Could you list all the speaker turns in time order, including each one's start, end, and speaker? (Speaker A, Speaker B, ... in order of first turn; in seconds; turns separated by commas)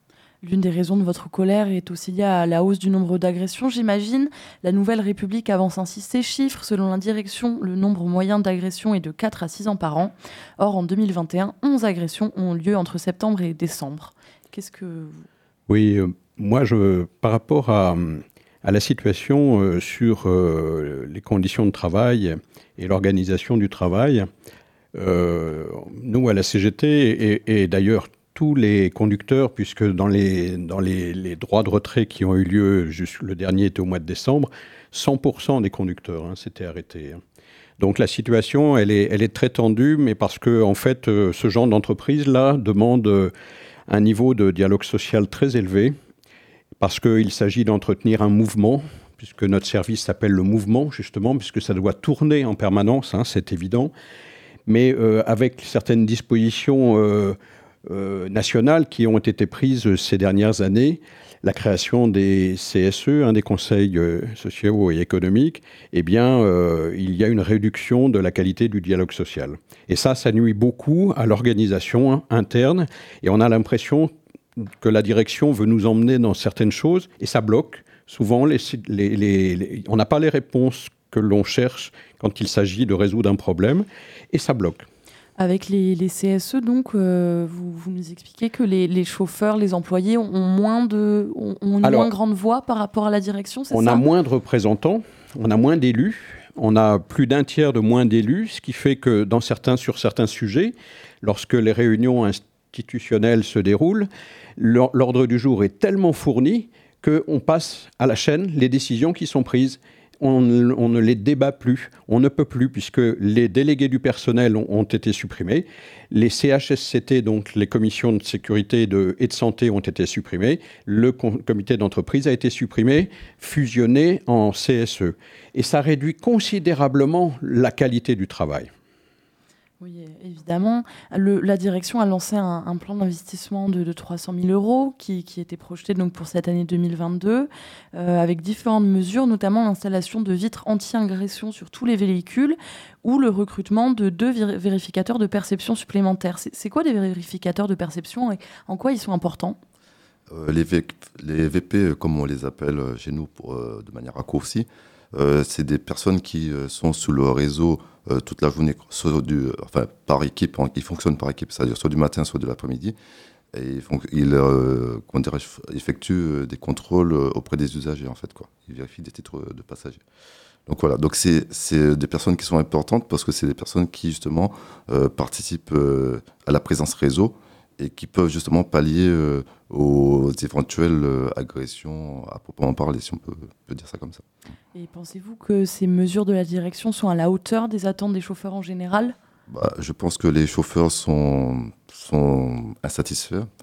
Speaker A: 0.4-15.2, Speaker B: 15.7-24.3, Speaker B: 24.9-37.2, Speaker B: 37.8-43.3, Speaker B: 43.9-46.0, Speaker B: 46.8-53.9, Speaker B: 54.7-84.8, Speaker A: 85.4-94.0, Speaker B: 91.8-92.1, Speaker B: 93.7-128.7, Speaker A: 129.8-149.6, Speaker C: 150.3-162.9, Speaker C: 163.5-170.0, Speaker C: 170.7-184.2, Speaker A: 184.7-189.2, Speaker C: 189.5-193.5